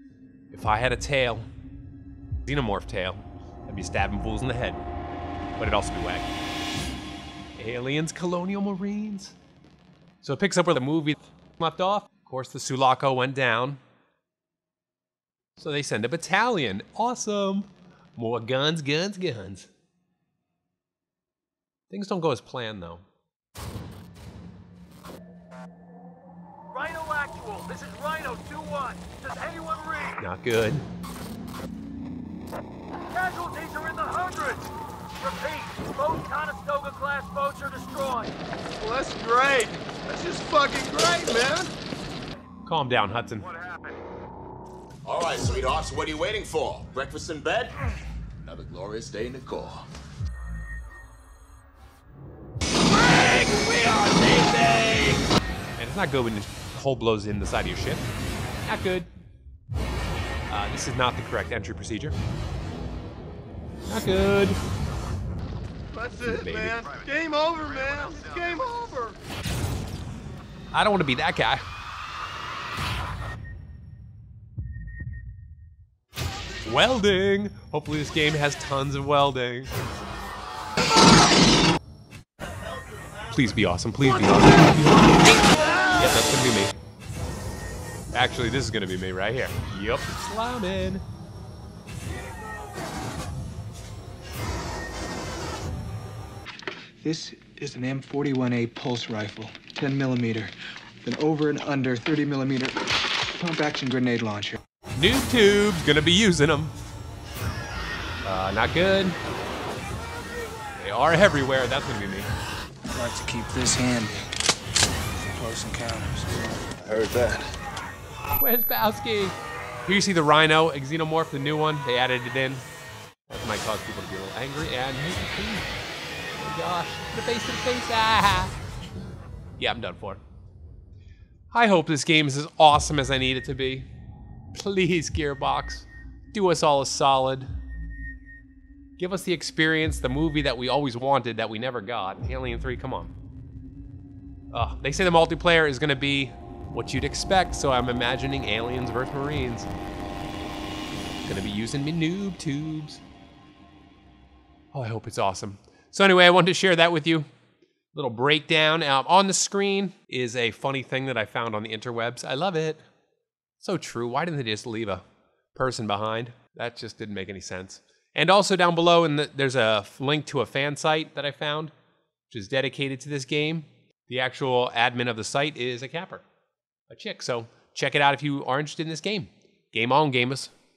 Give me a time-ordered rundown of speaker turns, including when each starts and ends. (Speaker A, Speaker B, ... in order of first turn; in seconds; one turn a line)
Speaker A: 0.5-1.5
Speaker A: 2.5-4.8
Speaker A: 5.6-6.3
Speaker A: 7.6-9.3
Speaker A: 10.2-13.8
Speaker A: 15.6-19.7
Speaker A: 21.9-23.0
Speaker B: 26.7-30.1
Speaker A: 30.1-30.8
Speaker B: 33.0-34.7
Speaker B: 35.2-38.3
Speaker C: 38.8-41.7
Speaker A: 42.6-43.5
Speaker D: 45.0-49.9
Speaker D: 53.0-55.2
Speaker A: 55.8-58.0
Speaker A: 58.6-59.1
Speaker A: 60.5-62.1
Speaker A: 63.9-64.6
Speaker C: 65.9-69.2
Speaker A: 66.2-66.9
Speaker A: 70.7-71.6
Speaker A: 76.6-79.7
Speaker A: 83.3-86.7
Speaker A: 88.1-91.0
Speaker E: 97.0-104.6
Speaker A: 105.0-106.7
Speaker A: 108.2-109.2
Speaker A: 110.8-112.3
Speaker E: 112.9-114.2
Speaker E: 115.3-117.5
Speaker A: 118.4-122.6
Speaker A: 123.3-125.7
Speaker A: 126.3-128.5
Speaker A: 129.6-130.2
Speaker A: 131.5-133.8
Speaker A: 134.5-137.5
Speaker A: 139.0-143.1
Speaker A: 144.5-149.7
Speaker A: 151.2-153.0
Speaker A: 154.7-157.2
Speaker A: 157.9-162.8
Speaker A: 163.6-165.0
Speaker A: 165.5-171.7
Speaker A: 172.3-176.2
Speaker A: 176.9-180.5